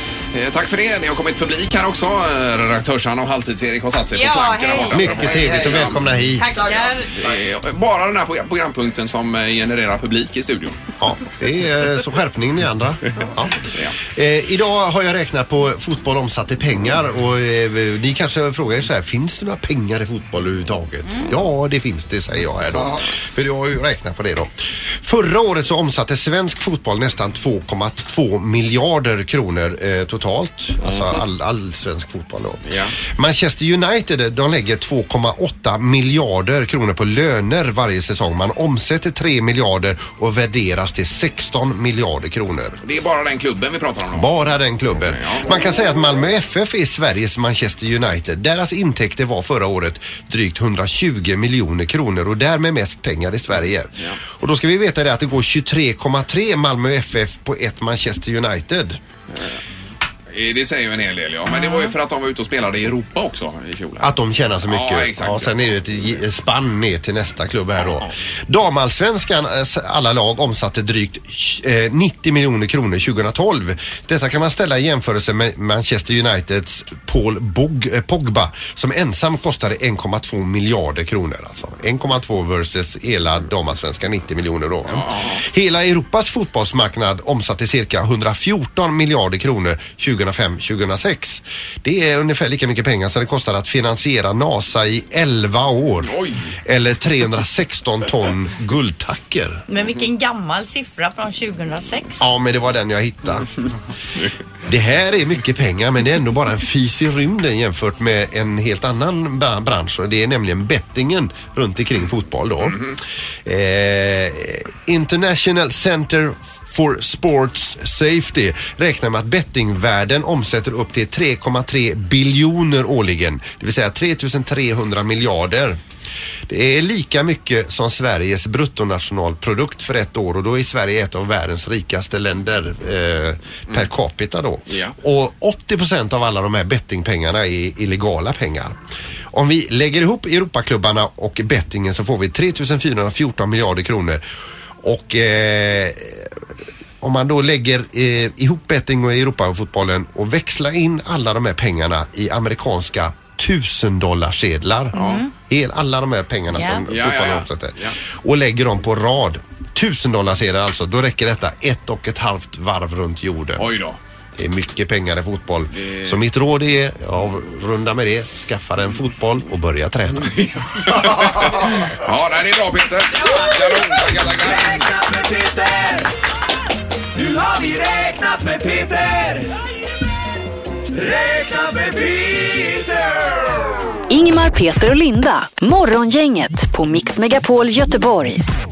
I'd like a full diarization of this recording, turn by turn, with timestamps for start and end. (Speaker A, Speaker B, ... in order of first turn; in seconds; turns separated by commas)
Speaker A: 0.3-10.8, Speaker B: 4.1-5.3, Speaker C: 4.9-6.6, Speaker B: 6.4-7.1, Speaker C: 11.0-42.8, Speaker A: 30.8-31.2, Speaker A: 32.6-33.0, Speaker A: 42.8-44.4, Speaker C: 44.1-59.0, Speaker A: 45.0-45.5, Speaker A: 60.3-65.8, Speaker B: 61.5-61.9, Speaker C: 64.0-99.6, Speaker A: 84.9-85.4, Speaker A: 96.0-96.5, Speaker B: 99.7-102.2, Speaker C: 102.2-103.5, Speaker C: 104.7-125.8, Speaker A: 112.7-112.9, Speaker C: 126.5-138.8, Speaker A: 134.7-134.9, Speaker C: 139.3-144.2, Speaker C: 144.8-146.3, Speaker C: 147.0-163.7, Speaker B: 154.9-155.3, Speaker A: 154.9-155.3, Speaker B: 156.6-156.8, Speaker A: 156.9-158.0, Speaker A: 163.6-164.0, Speaker C: 164.4-170.4, Speaker A: 165.8-166.2, Speaker A: 170.3-174.9, Speaker D: 173.2-176.1, Speaker D: 177.2-179.5, Speaker D: 180.9-183.4, Speaker E: 184.1-188.4